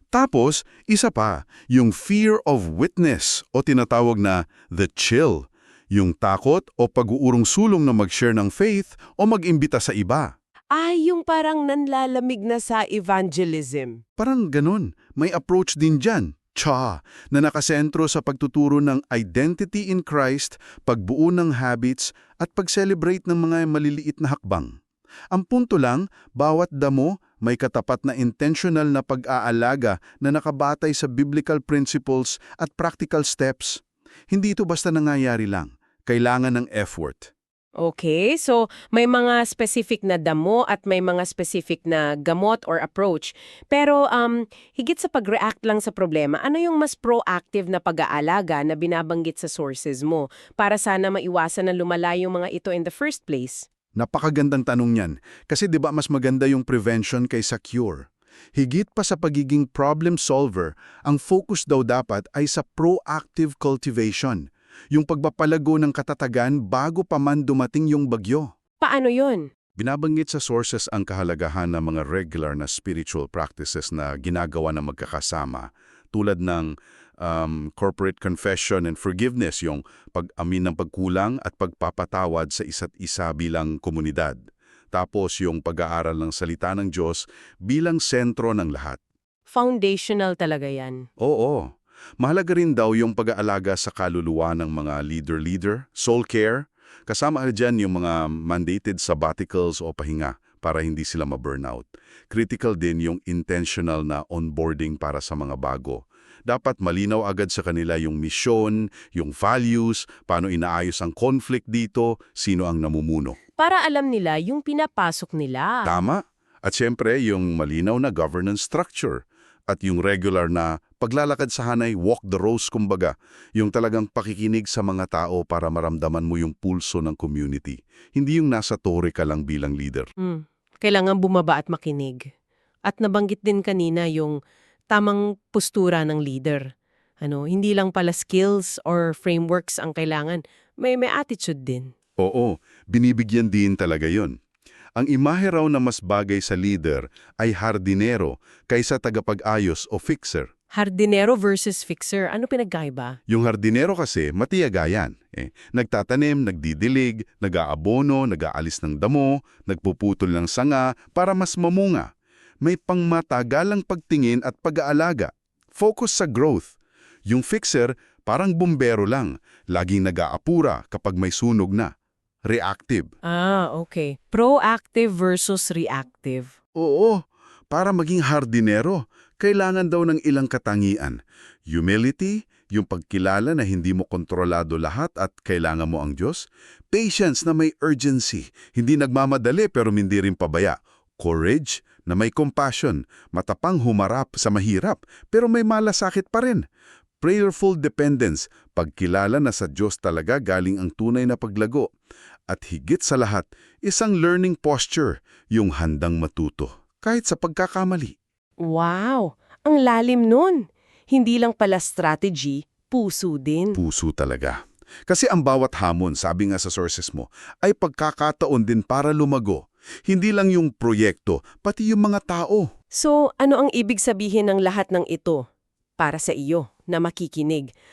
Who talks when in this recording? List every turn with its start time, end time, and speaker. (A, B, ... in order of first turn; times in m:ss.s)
0:00.1-0:10.3 A
0:10.8-0:14.0 B
0:14.2-0:24.7 A
0:25.3-0:33.8 A
0:34.3-0:37.3 A
0:37.8-0:53.7 B
0:54.0-1:08.5 A
1:08.8-1:09.5 B
1:09.8-1:24.4 A
1:24.9-1:29.0 A
1:29.5-1:31.0 B
1:31.2-1:31.7 A
1:32.2-1:53.4 A
1:53.6-1:55.9 B
1:55.8-2:10.1 A
2:10.2-2:12.2 B
2:12.9-2:14.4 B
2:14.9-2:16.7 B
2:17.2-2:21.9 B
2:22.2-2:24.4 A
2:25.0-2:30.5 A
2:30.8-2:33.2 B
2:33.3-2:42.1 A
2:42.6-2:46.7 A
2:47.3-2:51.9 A
2:52.5-2:53.1 A
2:53.3-2:56.5 B
2:56.8-3:01.2 A
3:01.7-3:16.6 A
3:17.2-3:21.9 A
3:22.5-3:28.2 A
3:28.6-3:33.8 B
3:33.8-3:42.7 A
3:43.0-3:45.4 B
3:46.0-3:47.7 B